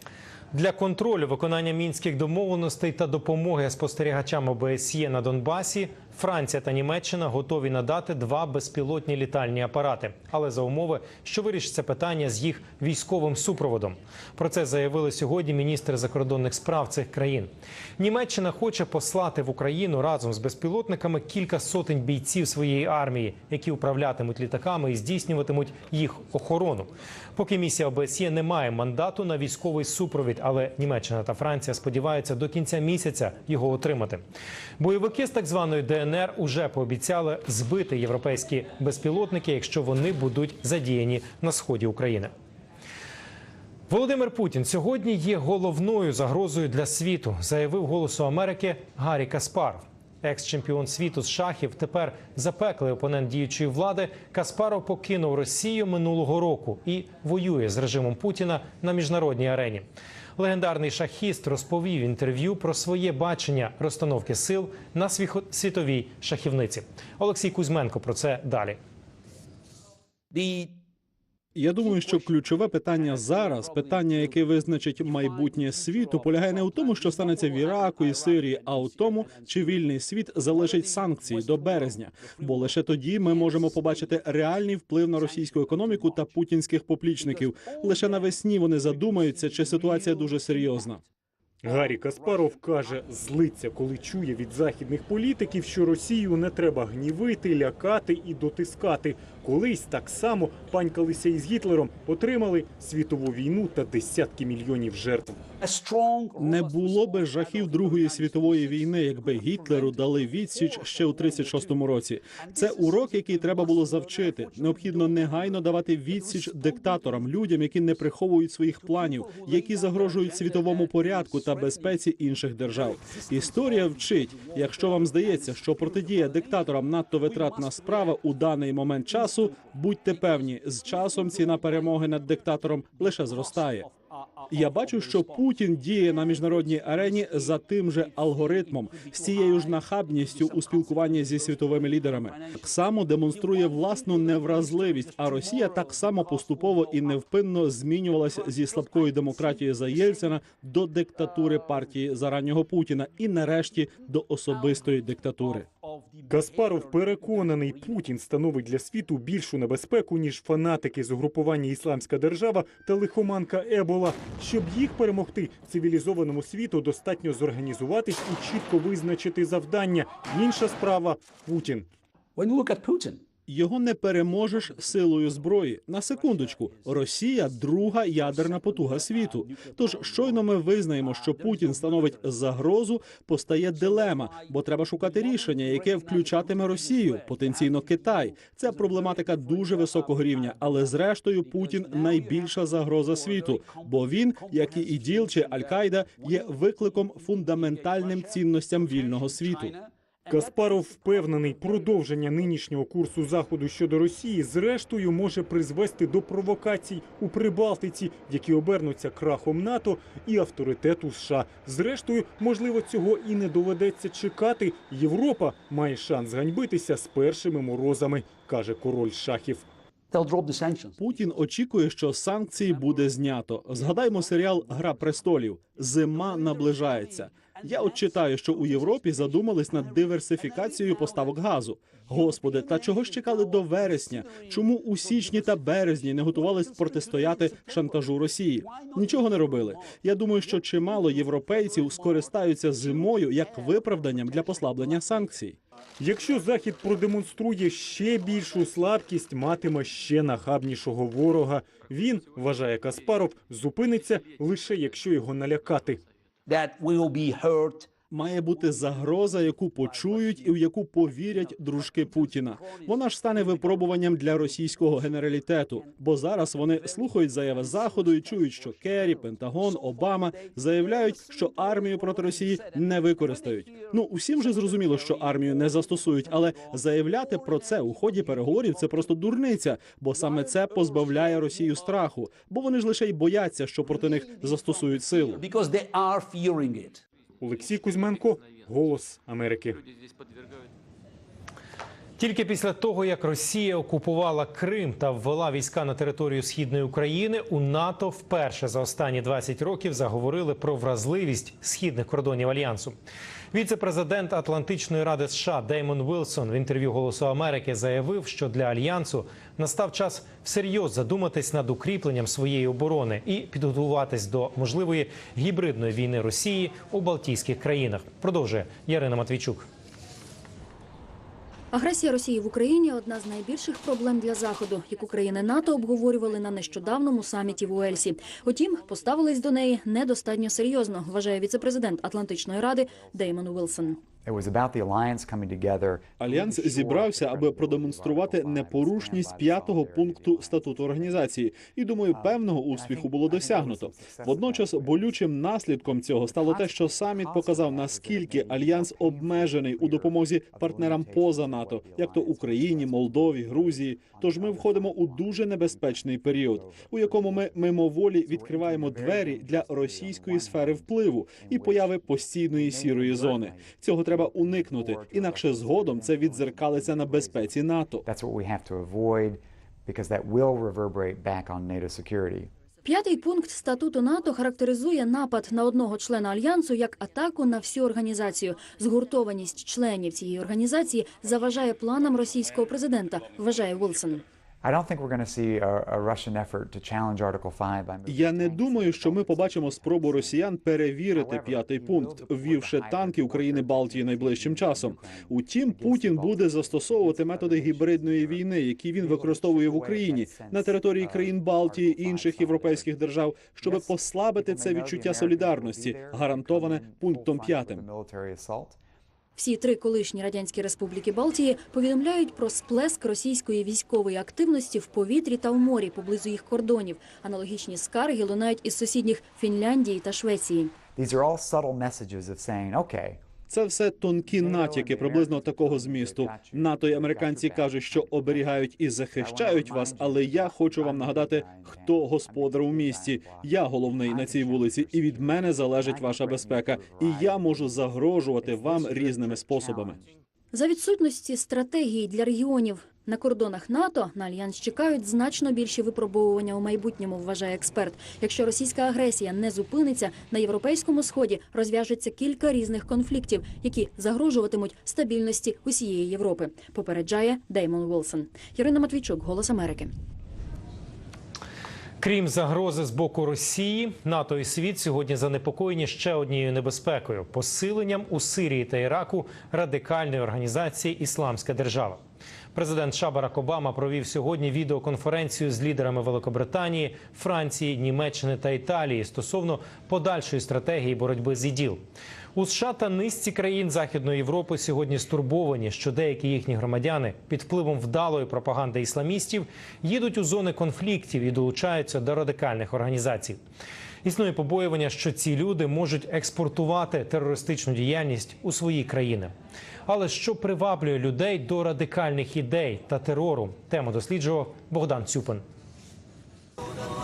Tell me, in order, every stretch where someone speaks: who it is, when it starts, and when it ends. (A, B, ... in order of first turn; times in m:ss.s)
0:00.5-0:34.2 A
0:34.8-0:42.3 A
0:43.9-0:59.8 A
1:00.4-1:08.8 A
1:11.5-1:31.0 B
1:31.6-1:45.4 C
1:45.6-1:47.2 D
1:46.4-2:13.9 B
1:49.4-1:49.9 D
1:51.2-1:51.7 D
1:52.6-1:55.0 D
2:14.5-2:35.7 B
2:36.3-2:51.9 C
2:52.4-2:53.2 D
2:53.5-3:19.8 B
3:13.0-3:13.9 D
3:14.5-3:15.4 D
3:16.0-3:16.6 D
3:17.4-3:18.3 D
3:19.2-3:19.7 D
3:20.3-3:39.6 C
3:40.1-3:40.9 D
3:41.0-4:05.6 B
4:06.0-4:16.0 C
4:16.5-4:17.8 D
4:18.1-4:45.5 B
4:47.4-4:49.8 C
4:52.2-5:03.0 A
5:03.5-5:19.7 A
5:21.7-5:34.0 E
5:34.2-5:41.4 F
5:36.2-6:08.0 B
5:42.1-5:45.2 F
5:46.2-6:12.5 F
6:12.8-6:24.2 E
6:24.6-6:30.5 F
6:28.0-6:47.8 B
6:31.1-6:43.0 F
6:43.6-6:48.8 F
6:49.4-7:00.8 E
7:00.9-7:03.2 F
7:03.5-7:20.0 B
7:04.3-7:20.0 F
7:20.5-7:39.9 E
7:42.0-7:52.0 A
7:52.5-8:01.8 A
8:02.3-8:13.4 A
8:14.0-8:19.3 A
8:19.8-8:25.4 A